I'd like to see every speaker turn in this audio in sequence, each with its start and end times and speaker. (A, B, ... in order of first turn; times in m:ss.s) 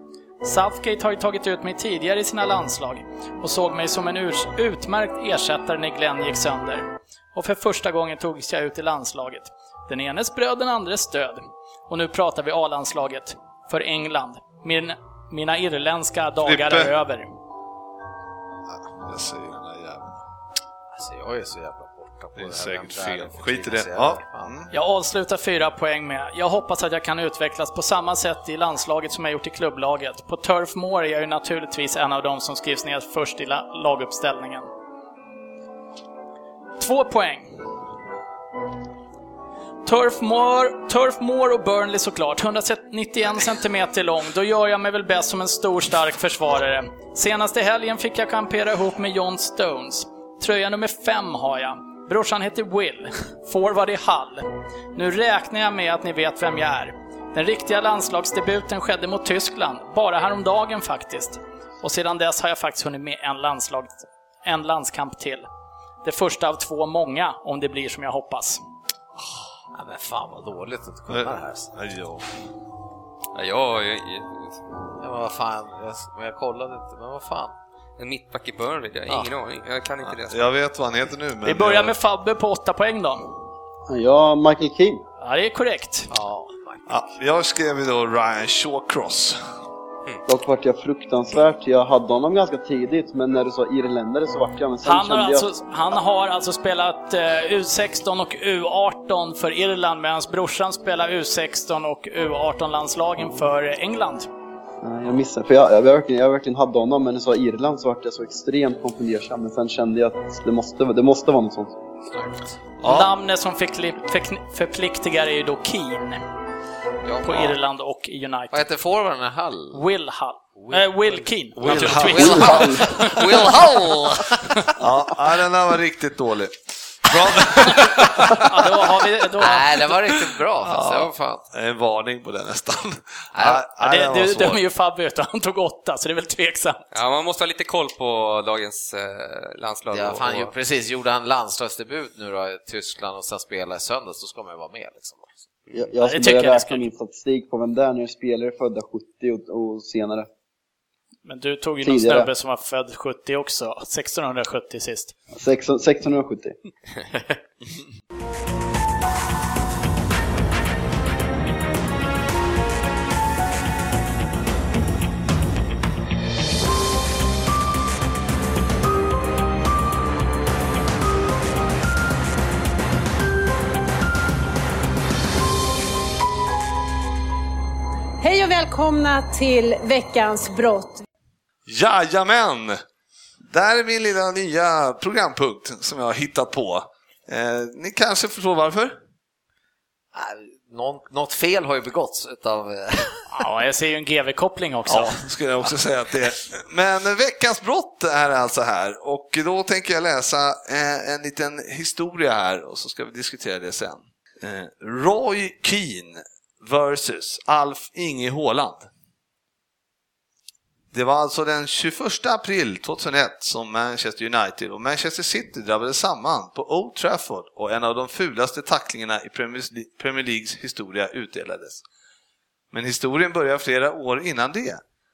0:00.4-0:17.3 A
0:16.4-0:16.9 B
0:18.7-0:20.2 B
0:20.9-0:24.6 C
0:22.4-0:24.7 B
0:24.7-0:34.7 A
0:36.8-0:37.5 A
0:39.8-1:05.4 A
1:06.0-1:08.6 A
1:09.7-1:11.7 C
1:11.1-1:12.4 B
1:13.3-1:14.6 D
1:15.0-1:17.5 C
1:18.0-1:20.4 D
1:20.2-1:21.9 B
1:21.4-1:23.2 A
1:23.9-1:25.0 E
1:25.2-1:26.1 A
1:26.1-1:26.9 C
1:26.9-1:29.4 B
1:30.3-1:35.5 E
1:34.8-1:44.3 A
1:44.8-1:51.8 E
1:52.1-1:52.5 C
1:52.8-1:53.1 B
1:52.8-1:56.2 A
1:57.0-1:57.5 C
1:57.2-1:58.6 A
1:58.5-1:59.8 C
1:59.7-2:03.2 A
2:00.6-2:04.8 C
2:01.6-2:02.7 B
2:02.2-2:03.0 E
2:04.8-2:08.5 B
2:08.3-2:10.0 A
2:09.4-2:11.4 C
2:10.6-2:14.6 B
2:13.3-2:13.6 C
2:13.8-2:16.8 A
2:16.9-2:20.5 D
2:19.9-2:25.4 C
2:25.7-2:30.3 E
2:26.0-2:26.9 A
2:31.2-2:35.1 A
2:31.8-2:32.3 E
2:35.4-2:36.5 E
2:58.2-3:01.0 F
3:01.7-3:02.8 B
3:03.4-3:09.0 B
3:10.1-3:13.4 C
3:13.3-3:15.2 A
3:14.9-3:28.9 B
3:30.9-3:41.8 B
3:42.7-3:44.8 B